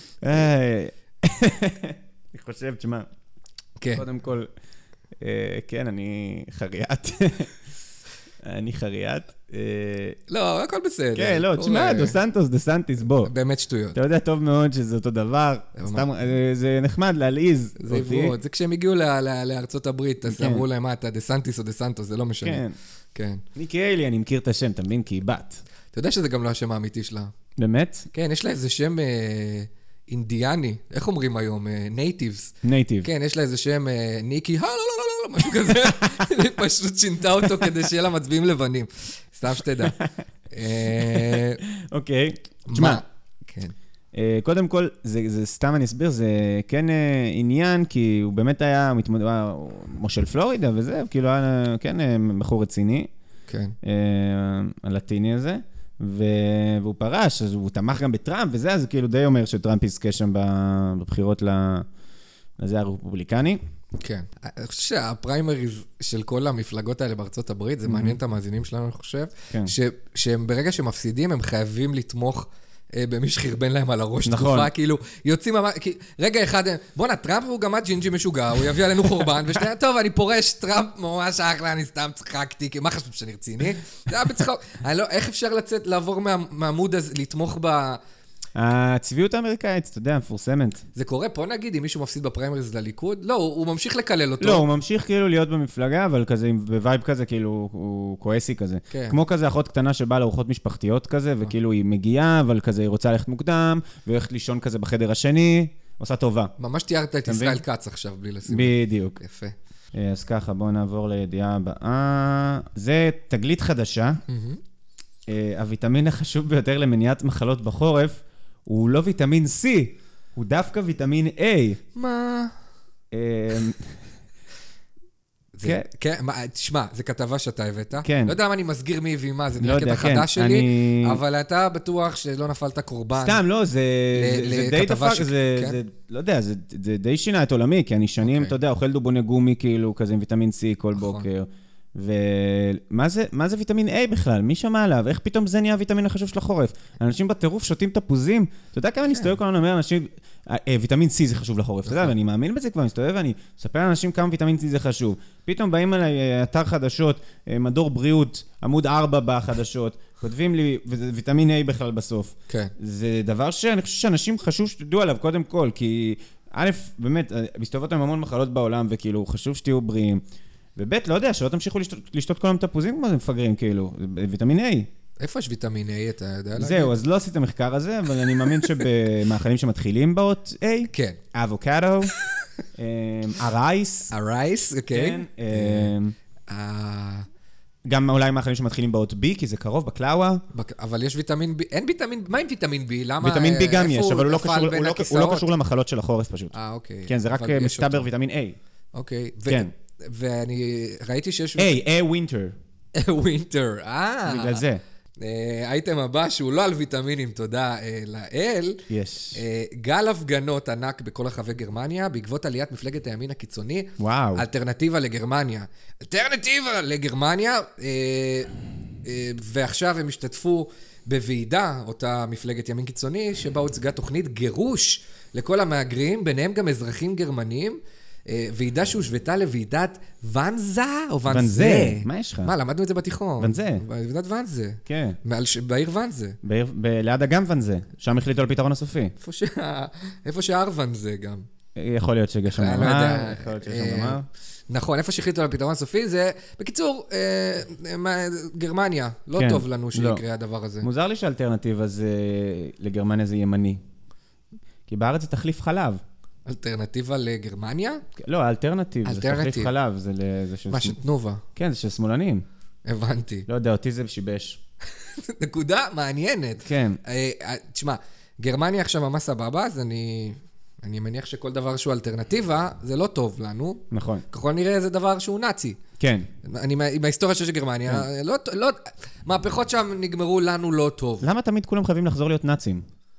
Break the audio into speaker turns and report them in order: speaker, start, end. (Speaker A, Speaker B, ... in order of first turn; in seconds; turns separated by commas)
Speaker A: 0.2-3.1, Speaker A: 3.9-4.5, Speaker A: 5.2-7.5, Speaker A: 8.4-10.2, Speaker B: 10.3-12.2, Speaker A: 11.2-13.3, Speaker B: 13.2-14.0, Speaker A: 13.9-18.4, Speaker B: 15.8-16.1, Speaker B: 17.8-22.6, Speaker A: 20.2-20.6, Speaker A: 22.4-22.8, Speaker B: 23.1-23.4, Speaker A: 23.6-25.6, Speaker B: 25.9-27.3, Speaker A: 27.6-28.1, Speaker B: 28.1-40.0, Speaker A: 32.6-33.1, Speaker A: 35.9-36.3, Speaker A: 39.8-40.1, Speaker B: 40.5-41.6, Speaker A: 40.9-43.0, Speaker B: 42.7-43.7, Speaker A: 44.1-53.1, Speaker B: 53.5-53.8, Speaker A: 53.8-61.9, Speaker A: 62.6-63.6, Speaker B: 64.0-88.0, Speaker A: 67.9-68.2, Speaker A: 74.3-74.7, Speaker A: 88.6-90.8, Speaker B: 91.0-94.7, Speaker A: 94.4-106.5, Speaker B: 98.9-99.2, Speaker B: 106.6-109.5, Speaker A: 107.3-107.6, Speaker A: 108.5-109.2, Speaker A: 109.9-114.2, Speaker B: 114.3-114.6, Speaker A: 115.3-121.8, Speaker B: 122.0-122.5, Speaker A: 123.1-124.0, Speaker B: 125.5-133.4, Speaker A: 128.0-128.4, Speaker A: 129.6-131.2, Speaker A: 133.2-170.2, Speaker B: 134.1-135.8, Speaker B: 138.2-138.5, Speaker B: 140.9-141.3, Speaker B: 151.9-152.2, Speaker A: 170.8-174.9, Speaker B: 175.2-177.0, Speaker A: 176.6-182.1, Speaker B: 178.4-178.7, Speaker B: 180.9-181.2, Speaker A: 182.8-184.1, Speaker B: 184.1-185.9, Speaker A: 184.9-186.2, Speaker B: 186.5-187.3, Speaker A: 187.9-190.4, Speaker B: 190.5-195.5, Speaker A: 193.2-196.5, Speaker B: 196.5-198.1, Speaker A: 197.1-198.6, Speaker B: 198.9-201.8, Speaker A: 201.6-202.5, Speaker B: 202.9-204.6, Speaker A: 204.3-204.8, Speaker B: 205.2-218.5, Speaker A: 208.9-209.4, Speaker A: 214.0-214.4, Speaker B: 219.0-236.4, Speaker A: 231.3-232.5, Speaker A: 233.4-233.8, Speaker A: 234.9-235.2, Speaker A: 236.4-239.1, Speaker B: 239.2-241.5, Speaker A: 241.8-244.3, Speaker B: 242.5-250.9, Speaker A: 249.3-250.2, Speaker A: 250.8-253.8, Speaker A: 254.9-256.0, Speaker B: 256.5-258.0, Speaker A: 258.2-261.0, Speaker B: 259.0-259.7, Speaker B: 260.7-261.4, Speaker A: 261.6-262.4, Speaker B: 262.9-263.5, Speaker A: 263.5-264.6, Speaker B: 265.2-275.8, Speaker A: 266.6-267.0, Speaker A: 273.9-274.2, Speaker A: 276.0-276.3, Speaker B: 276.4-281.3, Speaker A: 281.2-282.9